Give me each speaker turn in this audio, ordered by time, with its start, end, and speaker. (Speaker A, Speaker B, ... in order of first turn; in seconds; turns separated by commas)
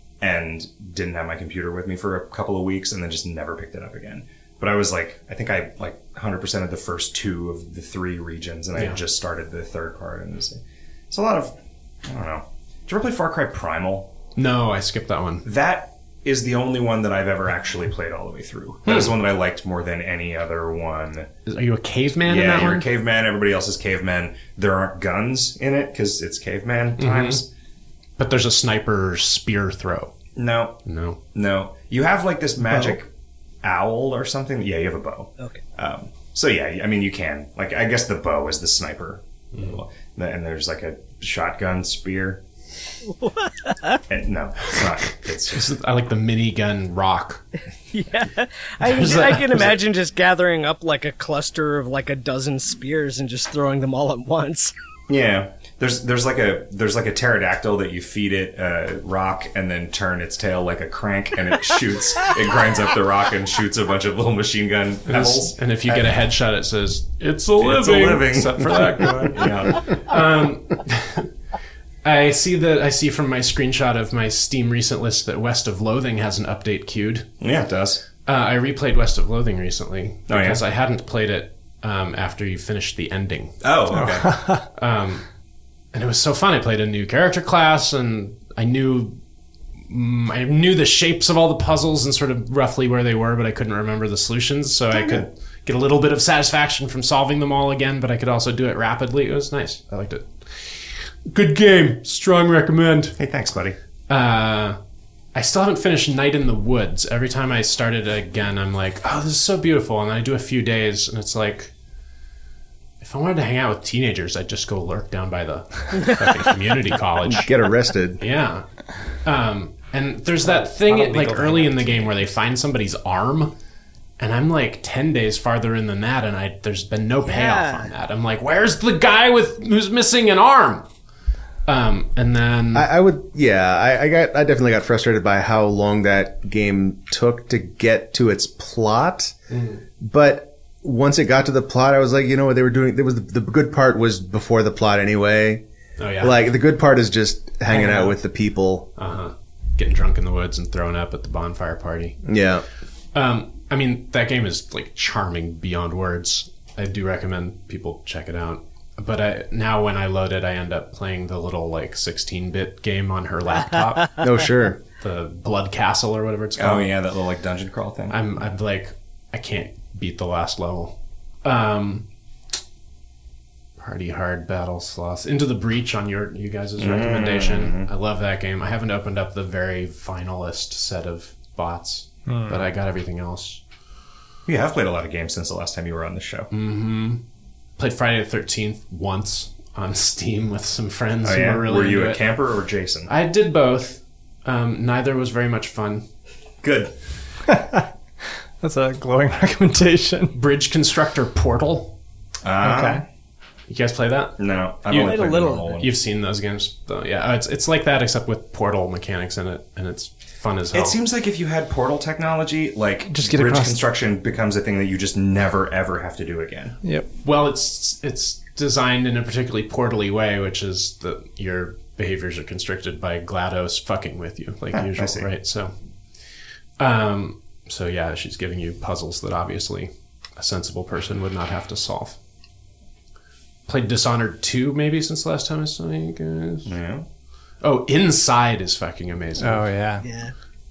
Speaker A: 0.2-10.6, Speaker B: 8.8-9.0, Speaker A: 11.1-11.5, Speaker A: 12.1-14.1, Speaker B: 14.4-15.5, Speaker A: 15.4-21.3, Speaker B: 18.9-19.1, Speaker B: 21.5-22.9, Speaker A: 22.3-27.5, Speaker B: 27.0-27.4, Speaker B: 28.2-30.1, Speaker A: 30.4-30.8, Speaker B: 30.9-31.2, Speaker A: 31.3-33.1, Speaker A: 33.6-42.4, Speaker C: 43.2-44.0, Speaker A: 44.1-45.7, Speaker B: 45.5-47.4, Speaker C: 47.9-54.7, Speaker B: 48.8-49.8, Speaker A: 55.1-66.2, Speaker B: 65.1-71.3, Speaker A: 67.6-69.9, Speaker D: 69.0-69.3, Speaker B: 72.0-77.3, Speaker A: 77.4-78.0, Speaker B: 78.3-83.6, Speaker A: 80.3-80.6, Speaker A: 83.6-84.3, Speaker D: 83.9-84.7, Speaker B: 84.8-85.2, Speaker B: 85.9-89.2, Speaker B: 89.9-103.2, Speaker A: 103.2-103.8, Speaker B: 104.1-104.8, Speaker B: 105.3-111.7, Speaker B: 113.0-117.5, Speaker E: 117.2-118.2, Speaker B: 118.2-118.7, Speaker B: 119.2-123.5, Speaker A: 120.5-122.1, Speaker B: 124.2-130.9, Speaker C: 127.3-127.9, Speaker B: 131.7-132.9, Speaker E: 132.7-139.3, Speaker B: 139.5-139.8, Speaker E: 140.0-145.6, Speaker B: 146.0-146.5, Speaker E: 146.2-148.9, Speaker B: 147.7-148.2, Speaker B: 149.0-152.2, Speaker E: 152.2-152.7, Speaker B: 153.1-164.4, Speaker E: 164.2-164.8, Speaker B: 165.0-166.9, Speaker A: 166.6-168.2, Speaker B: 168.1-172.1, Speaker B: 173.8-183.6, Speaker A: 176.8-177.9, Speaker D: 182.3-182.6, Speaker A: 184.5-186.5, Speaker B: 186.5-187.2, Speaker B: 187.8-192.2, Speaker A: 191.2-193.1, Speaker B: 193.1-196.1, Speaker A: 196.6-196.9, Speaker D: 197.5-197.9, Speaker D: 198.6-200.4, Speaker B: 200.3-202.0, Speaker A: 202.4-203.0, Speaker D: 202.6-203.0, Speaker B: 203.7-211.0, Speaker A: 204.4-205.9, Speaker C: 205.0-205.8, Speaker A: 210.7-216.8, Speaker D: 213.1-213.8, Speaker D: 216.8-217.1, Speaker B: 217.2-225.7, Speaker A: 224.7-225.3, Speaker B: 226.8-232.2, Speaker B: 233.7-236.7, Speaker A: 236.7-237.1, Speaker B: 237.6-239.7, Speaker D: 239.4-240.1, Speaker C: 240.0-240.3